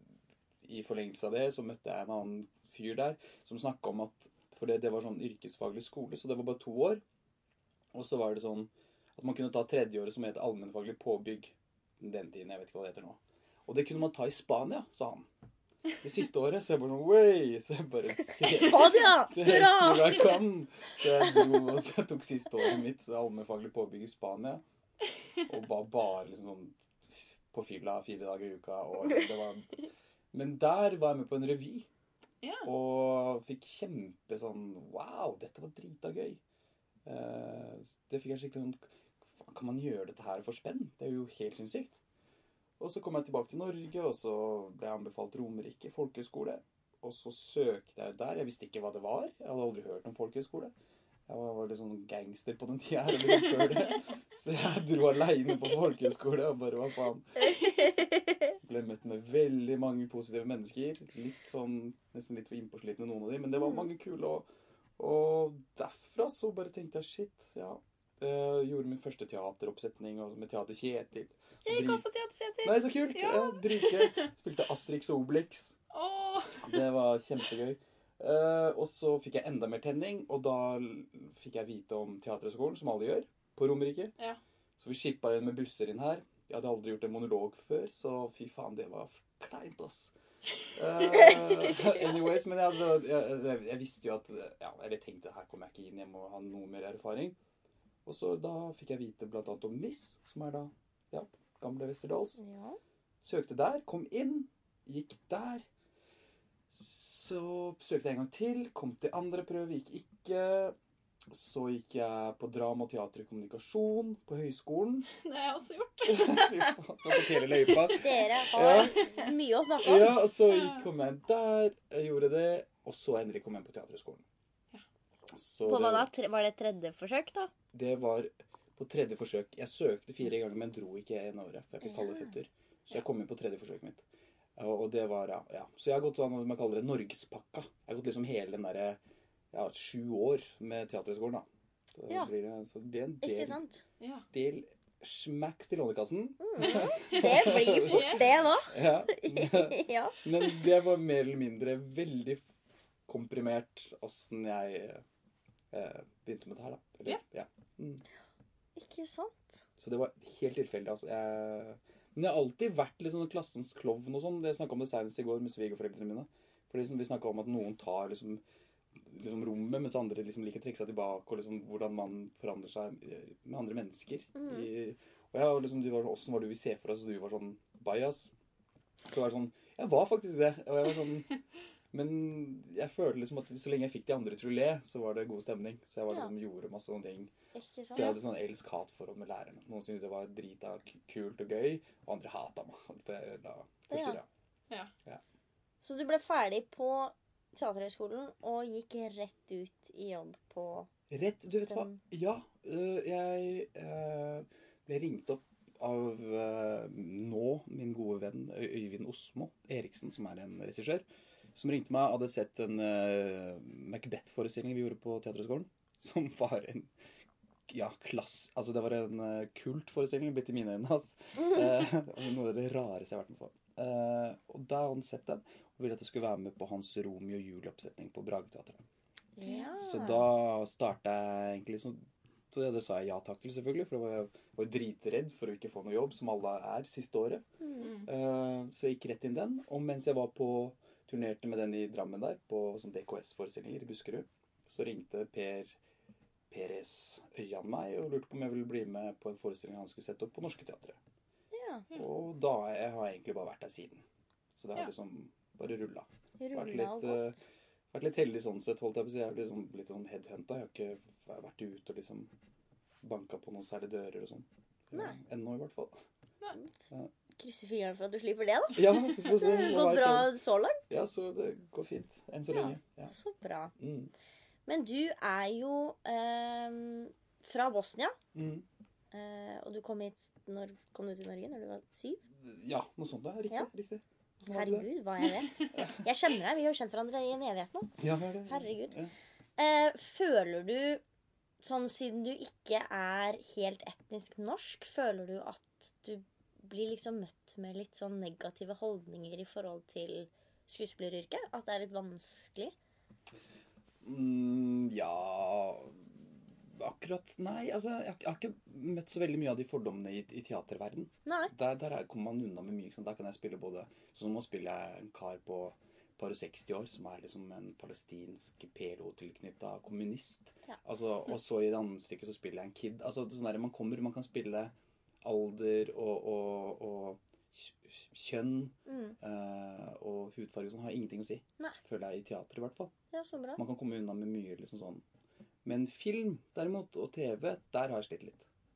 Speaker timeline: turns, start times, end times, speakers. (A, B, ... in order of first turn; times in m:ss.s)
0:00.6-0:07.0 A
0:07.9-0:15.3 A
0:16.0-0:24.6 A
0:18.5-0:20.3 B
0:25.4-0:31.9 A
0:32.4-0:32.7 C
0:32.6-0:36.4 A
0:37.0-0:42.0 A
0:42.8-0:50.7 A
0:51.3-0:57.9 A
0:57.5-0:58.5 B
0:58.6-1:04.4 A
1:05.0-1:12.0 A
1:11.6-1:14.3 C
1:12.6-1:15.8 A
1:15.9-1:16.8 C
1:16.6-1:24.1 A
1:24.8-1:30.1 A
1:30.7-1:37.4 A
1:38.0-1:42.4 A
1:42.4-1:42.8 B
1:43.2-1:45.6 A
1:46.7-1:50.7 A
1:51.3-1:55.1 A
1:55.1-1:58.2 C
1:56.0-1:59.0 A
1:58.0-2:00.2 B
1:59.0-1:59.3 C
1:59.8-2:04.2 A
2:00.5-2:00.8 C
2:05.3-2:06.1 A
2:05.6-2:07.5 B
2:07.7-2:14.0 A
2:11.9-2:12.3 B
2:14.6-2:19.0 A
2:19.5-2:23.6 A
2:23.2-2:23.8 B
2:24.0-2:24.3 C
2:24.3-2:32.4 A
2:26.4-2:30.6 B
2:27.0-2:28.3 C
2:33.1-2:35.0 A
2:35.7-2:38.0 A
2:38.8-2:39.6 B
2:39.8-2:48.4 A
2:49.0-2:58.3 A
2:54.4-2:54.6 B
2:59.1-3:01.3 A
3:01.9-3:07.3 A
3:07.5-3:08.2 B
3:07.9-3:14.2 A
3:13.9-3:14.2 B
3:15.8-3:20.9 B
3:21.1-3:36.9 A
3:21.7-3:22.0 B
3:37.7-3:48.8 A
3:49.4-3:50.3 B
3:49.4-3:49.7 C
3:49.8-3:57.4 A
3:57.6-3:57.9 B
3:57.8-3:58.1 C
3:58.0-4:05.8 A
4:06.5-4:11.0 A
4:11.5-4:11.8 B
4:11.9-4:14.0 A
4:14.6-4:22.3 A
4:16.4-4:17.4 B
4:23.0-4:25.9 A
4:26.5-4:30.8 B
4:28.7-4:30.3 A
4:30.9-4:33.1 A
4:32.5-4:33.7 B
4:33.8-4:34.1 A
4:34.6-4:38.2 B
4:38.3-4:38.6 A
4:39.1-4:42.2 B
4:42.4-4:44.9 A
4:44.5-4:48.0 B
4:45.4-4:45.6 C
4:48.0-4:49.1 A
4:48.5-4:49.0 B
4:49.6-4:51.0 B
4:51.6-5:02.7 B
5:04.0-5:32.9 A
5:11.2-5:11.5 B
5:28.8-5:29.2 B
5:33.1-5:33.6 B
5:33.6-5:35.0 A
5:35.6-5:38.5 A